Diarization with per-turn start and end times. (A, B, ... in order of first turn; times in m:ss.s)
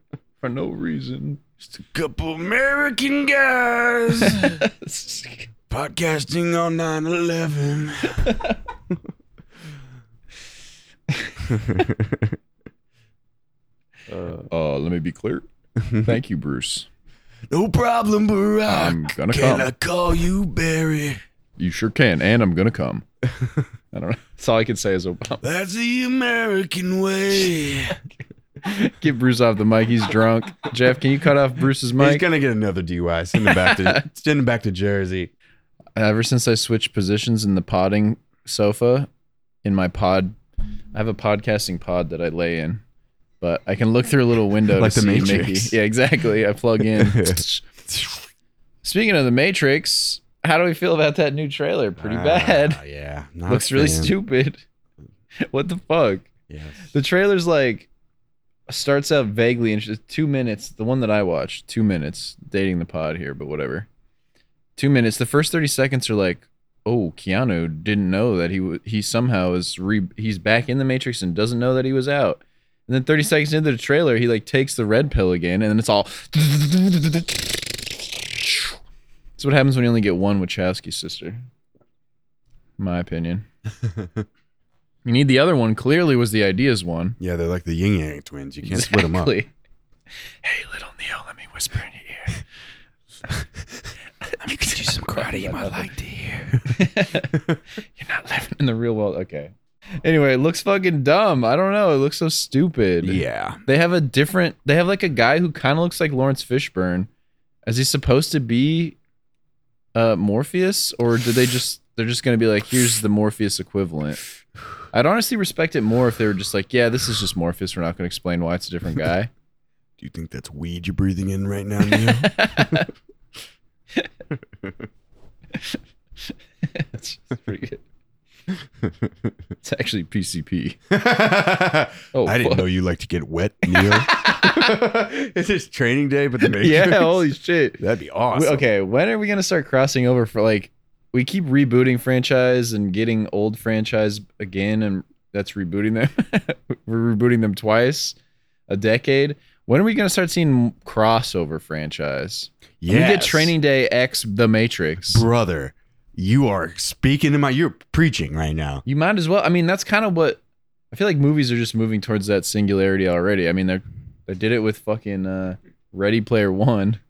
0:00.4-0:01.4 A
0:01.6-0:04.6 B
0:04.2-0:05.5 A
0:05.7-0:08.4 B
0:08.2-0:08.6 A
0:11.1-0:11.5 A
0:11.4-0:12.4 B
0:14.1-0:14.5 B
0:14.4-0:15.4 A
0:15.8-0:16.2 B
0:16.0-0:16.9 A
0:17.5-0:21.2 B
0:18.7-0:19.7 A
0:21.6-0:23.0 A
0:23.4-0:23.6 B
0:23.9-0:25.4 A
0:25.4-0:28.0 B
0:28.6-0:32.2 A
0:32.0-0:35.3 B
0:33.4-0:34.0 A
0:36.0-0:39.1 A
0:39.6-0:40.4 A
0:40.9-0:42.8 A
0:43.4-0:47.7 A
0:44.8-0:45.8 B
0:46.8-0:48.3 B
0:48.8-0:52.8 A
0:52.0-0:54.2 B
0:53.5-0:54.6 A
0:55.4-0:56.3 A
0:56.5-0:56.9 B
0:56.9-0:57.9 A
0:58.7-1:03.9 A
1:04.8-1:18.7 A
1:19.4-1:21.4 A
1:22.8-1:23.5 A
1:23.8-1:24.3 B
1:25.0-1:27.2 A
1:27.2-1:29.4 B
1:28.6-1:29.5 A
1:30.4-1:32.4 A
1:34.4-1:37.6 B
1:34.5-1:35.9 A
1:36.7-1:37.4 A
1:38.0-1:47.1 A
1:43.0-1:43.6 B
1:47.7-1:49.0 A
1:50.0-1:54.2 A
1:54.9-1:59.3 A
2:00.0-2:02.9 B
2:01.9-2:02.9 A
2:04.6-2:04.9 B
2:05.5-2:05.8 A
2:06.6-2:07.8 A
2:08.8-2:09.3 B
2:09.6-2:10.8 A
2:10.9-2:18.7 B
2:12.1-2:12.6 A
2:13.7-2:14.7 A
2:16.5-2:17.8 A
2:18.3-2:28.2 A
2:28.7-2:35.2 A
2:32.8-2:33.5 B
2:35.0-2:38.8 B
2:38.9-2:47.0 A